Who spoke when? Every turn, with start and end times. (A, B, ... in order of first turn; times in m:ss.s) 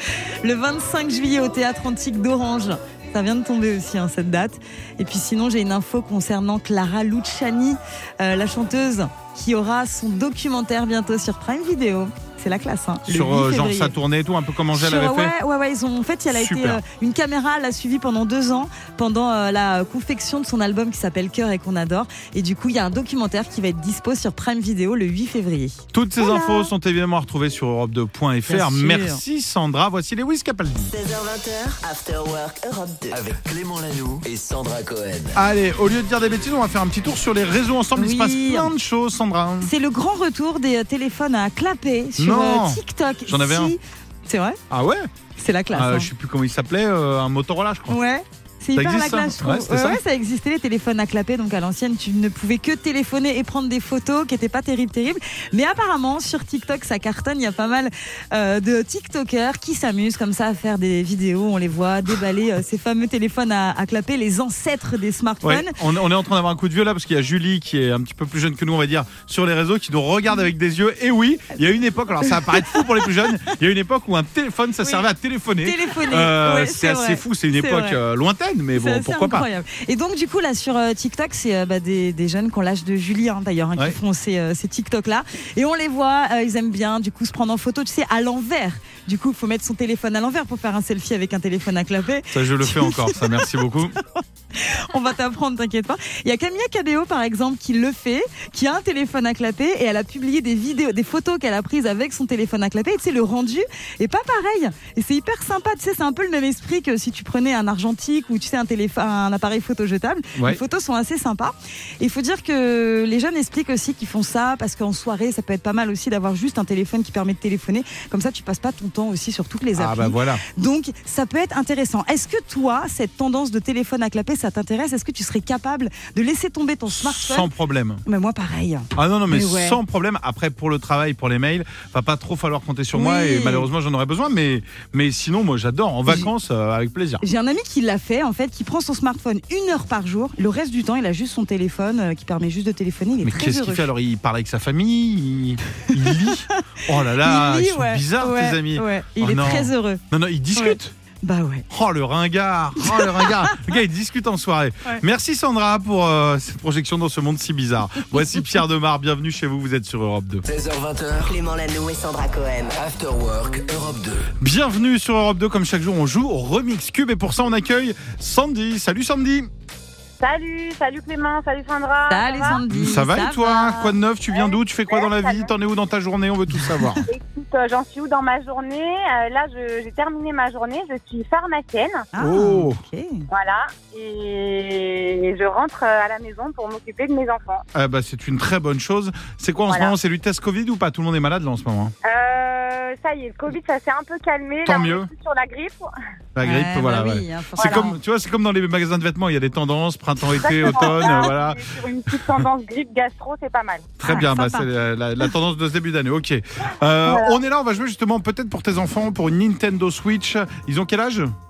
0:00.2-0:13.9 A
0:13.0-0:15.3 B
0:14.7-0:26.7 A
0:16.3-0:16.8 B
0:25.9-0:30.9 B
0:28.4-0:29.2 A
0:30.9-0:33.3 C
0:33.1-0:35.4 D
0:35.3-0:39.7 B
0:38.0-0:38.7 A
0:39.6-0:44.6 A
0:42.2-0:43.8 B
0:44.7-0:45.1 B
0:45.4-0:46.1 A
0:45.7-0:48.0 B
0:47.9-1:05.8 A
0:48.7-0:50.0 B
1:05.4-1:19.5 B
1:12.3-1:12.6 A
1:15.6-1:18.0 A
1:18.7-1:33.5 A
1:32.3-1:34.0 B
1:34.5-2:07.5 A
1:50.4-1:50.6 B
1:59.7-2:00.4 B
2:06.9-2:08.0 B
2:08.0-2:09.8 A
2:09.0-2:17.2 B
2:12.9-2:13.7 A
2:17.2-2:23.9 A
2:23.2-2:30.9 B
2:26.0-2:26.6 A
2:27.1-2:30.0 A
2:30.5-2:31.6 A
2:31.7-2:40.4 B
2:32.8-2:33.3 A
2:40.5-2:41.4 D
2:41.2-2:42.8 C
2:42.7-2:44.3 D
2:44.4-2:49.5 B
2:50.2-2:52.6 E
2:52.1-2:53.9 A
2:52.7-2:57.0 B
2:54.3-2:55.5 E
2:56.6-2:57.0 A
2:57.1-3:02.0 E
3:02.1-3:03.2 A
3:02.2-3:02.8 B
3:03.3-3:07.6 E
3:07.7-3:11.9 B
3:12.0-3:15.9 E
3:14.6-3:15.1 B
3:16.3-3:21.6 B
3:16.4-3:18.0 A
3:20.3-3:23.9 E
3:22.1-3:22.4 B
3:24.0-3:31.3 B
3:24.0-3:24.7 A
3:27.0-3:27.4 E